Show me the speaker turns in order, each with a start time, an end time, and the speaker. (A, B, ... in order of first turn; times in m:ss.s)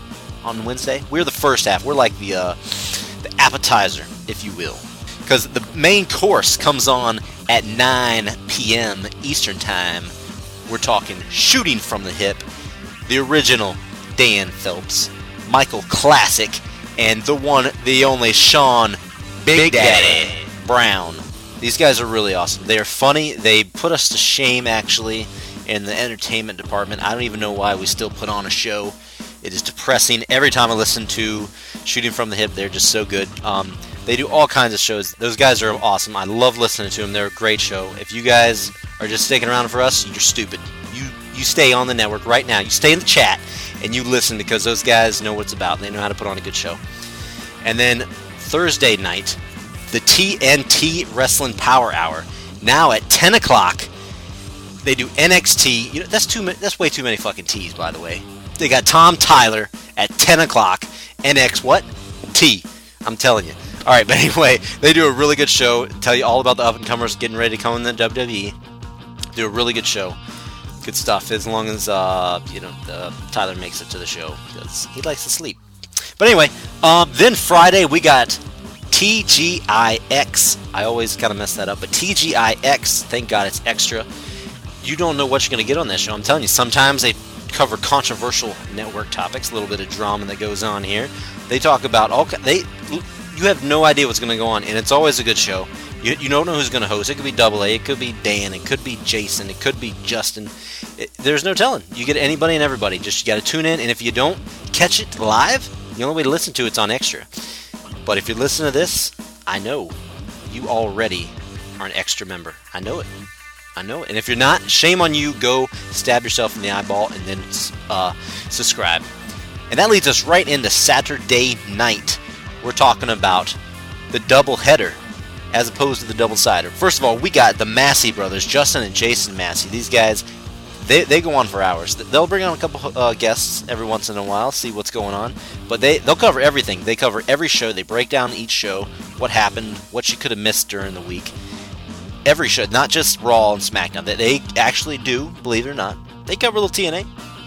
0:00.4-0:10.1 A
0:10.7-0:12.4 A
0:13.0-0:46.8 A
0:47.6-0:53.9 A
0:54.8-1:08.6 A
1:09.3-1:10.2 A
1:10.8-1:15.6 A
1:16.2-1:24.1 A
1:24.8-1:47.3 A
1:48.0-1:53.1 A
1:53.8-1:59.1 A
1:59.7-2:03.6 A
2:04.1-2:05.0 A
2:05.5-2:10.2 A
2:10.8-2:21.3 A
2:22.2-2:27.1 A